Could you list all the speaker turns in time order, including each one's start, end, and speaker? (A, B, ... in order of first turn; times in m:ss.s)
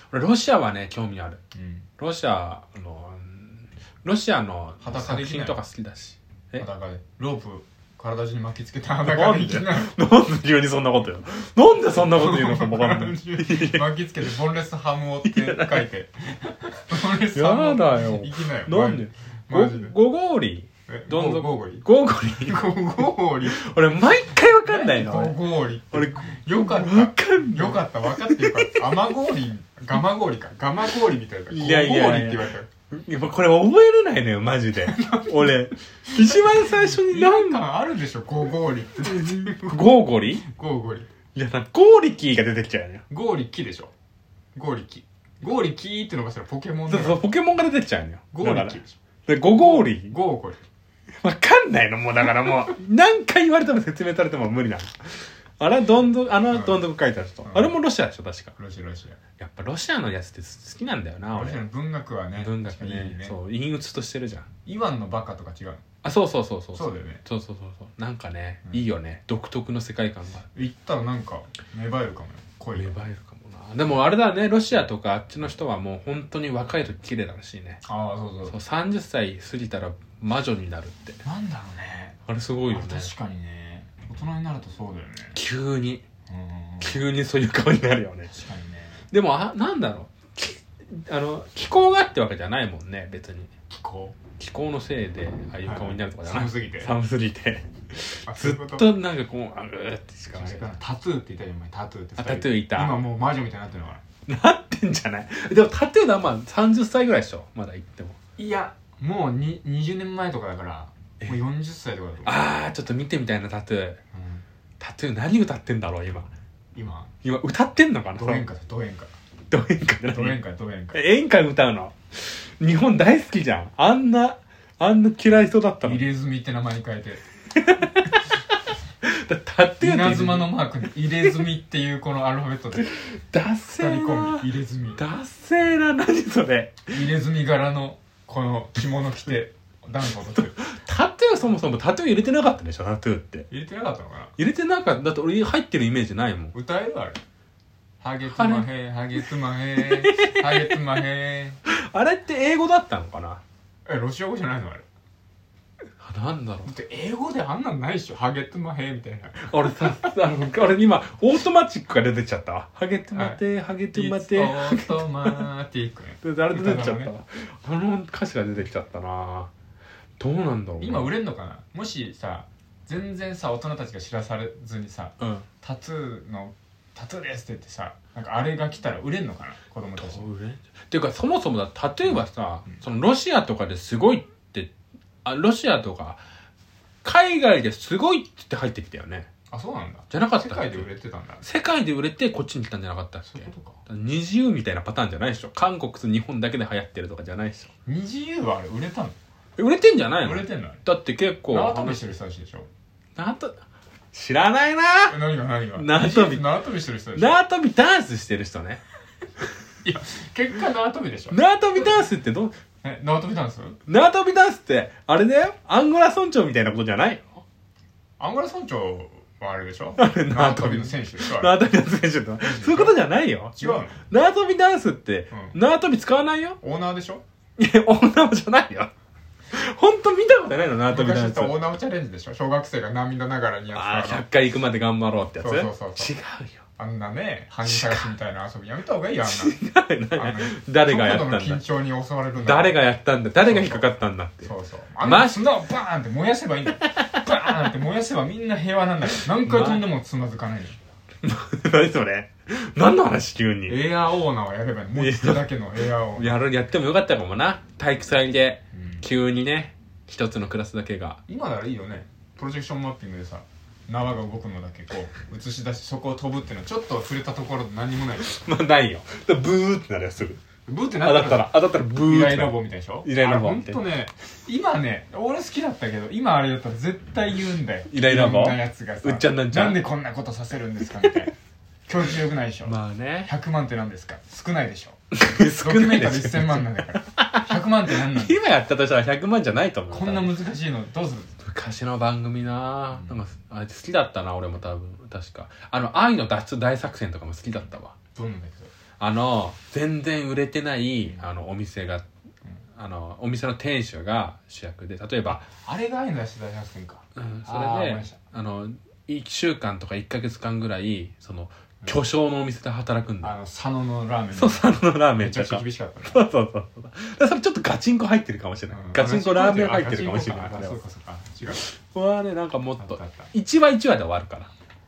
0:00.1-0:01.4 A
0:01.5-0:01.8 B
0:02.0-0:06.6 A
0:04.8-0:05.6 B
0:06.5-0:09.9 B
0:09.0-0:13.9 A
0:11.9-0:19.9 B
0:15.2-0:15.9 A
0:17.2-0:22.6 A
0:20.9-0:23.7 B
0:23.5-0:25.4 A
0:24.6-0:32.7 B
0:25.9-0:29.2 A
0:31.5-0:37.6 A
0:34.8-0:39.8 B
0:39.0-0:40.4 A
0:40.4-0:41.1 B
0:41.3-0:43.0 A
0:43.1-0:43.9 B
0:44.5-0:47.2 B
0:46.9-0:50.2 A
0:48.3-0:49.0 B
0:49.5-0:50.6 B
0:51.2-0:58.5 A
0:56.5-0:56.8 B
0:57.4-0:57.8 B
0:58.6-0:59.2 B
0:59.4-1:01.6 A
1:01.3-1:03.4 B
1:02.4-1:04.5 A
1:04.6-1:05.8 B
1:06.0-1:10.5 A
1:06.7-1:07.2 B
1:10.5-1:13.0 B
1:12.7-1:17.8 A
1:17.8-1:18.6 B
1:18.4-1:21.2 A
1:21.2-1:22.2 B
1:22.3-1:23.1 A
1:22.7-1:25.4 B
1:25.3-1:26.0 A
1:26.3-1:27.0 B
1:26.8-1:28.3 A
1:28.3-1:29.1 B
1:29.1-1:33.5 A
1:33.7-1:34.2 B
1:34.4-1:40.8 A
1:35.6-1:36.9 B
1:38.2-1:38.9 B
1:40.3-1:44.0 B
1:42.2-1:43.0 A
1:44.3-1:48.2 A
1:48.4-1:52.5 B
1:52.2-1:54.0 A
1:54.1-1:54.4 B
1:54.8-1:56.3 A
1:56.7-1:57.1 B
1:57.2-1:58.4 A
1:58.1-1:59.1 B
1:59.5-2:00.4 A
2:00.1-2:01.0 B
2:00.9-2:06.1 A
2:05.8-2:07.2 B
2:07.5-2:08.4 A
2:09.0-2:10.6 A
2:09.8-2:12.9 B
2:12.8-2:14.4 A
2:13.7-2:15.0 B
2:15.0-2:16.9 A
2:16.9-2:20.6 B
2:20.6-2:23.5 A
2:23.5-2:24.3 B
2:24.4-2:26.5 A
2:26.5-2:27.2 B
2:28.0-2:31.6 B
2:28.2-2:28.7 A
2:29.8-2:30.8 A
2:31.6-2:33.4 A
2:33.8-2:34.8 B
2:36.0-2:36.7 A
2:36.6-2:39.5 B
2:39.4-2:45.4 A
2:43.1-2:43.4 B
2:43.9-2:47.1 B
2:46.2-2:49.5 A
2:50.2-2:51.1 A
2:50.8-3:00.3 B
2:55.2-2:55.4 A
3:00.0-3:04.7 A
3:02.0-3:02.8 B
3:05.2-3:06.2 A
3:07.0-3:09.3 A
3:09.5-3:11.4 B
3:10.1-3:10.9 A
3:11.4-3:17.7 A
3:13.3-3:13.8 B
3:17.8-3:19.2 B
3:19.6-3:22.1 A
3:20.2-3:20.8 B
3:21.5-3:22.7 B
3:23.2-3:23.6 A
3:24.1-3:25.2 A
3:25.1-3:27.4 B
3:25.8-3:26.5 A
3:27.2-3:28.8 A
3:29.8-3:31.4 B
3:31.3-3:32.6 A
3:32.8-3:33.8 B
3:33.8-3:37.4 A
3:38.2-3:41.6 B
3:40.0-3:46.6 A
3:42.4-3:43.0 B
3:43.5-3:44.0 B
3:45.3-3:45.6 B
3:46.6-3:47.2 B
3:47.6-3:48.9 A
3:49.5-3:51.6 A
3:50.9-3:54.2 B
3:53.7-3:56.6 A
3:55.4-3:56.1 B
3:56.8-3:59.6 B
3:57.6-3:58.1 A
3:59.2-4:01.6 A
4:00.1-4:02.8 B
4:02.4-4:05.6 A
4:03.4-4:03.9 B
4:04.4-4:10.8 B
4:06.8-4:07.5 A
4:09.3-4:09.9 A
4:11.2-4:13.8 A
4:13.7-4:16.4 B
4:14.9-4:21.2 A
4:18.7-4:19.0 B
4:21.3-4:28.3 B
4:28.2-4:30.4 A
4:30.7-4:41.3 B
4:31.0-4:33.8 A
4:37.9-4:39.9 A
4:41.9-4:48.4 B
4:42.6-4:43.3 A
4:45.1-4:50.4 A
4:49.9-4:51.3 B
4:51.4-4:57.9 A
4:52.9-4:53.2 B
4:58.1-4:58.7 B
4:59.0-5:02.0 A
5:02.8-5:05.5 A
5:05.3-5:08.2 B
5:07.2-5:13.3 A
5:13.2-5:16.2 B
5:14.3-5:20.8 A
5:18.7-5:21.6 B
5:21.5-5:24.5 A
5:22.8-5:23.3 B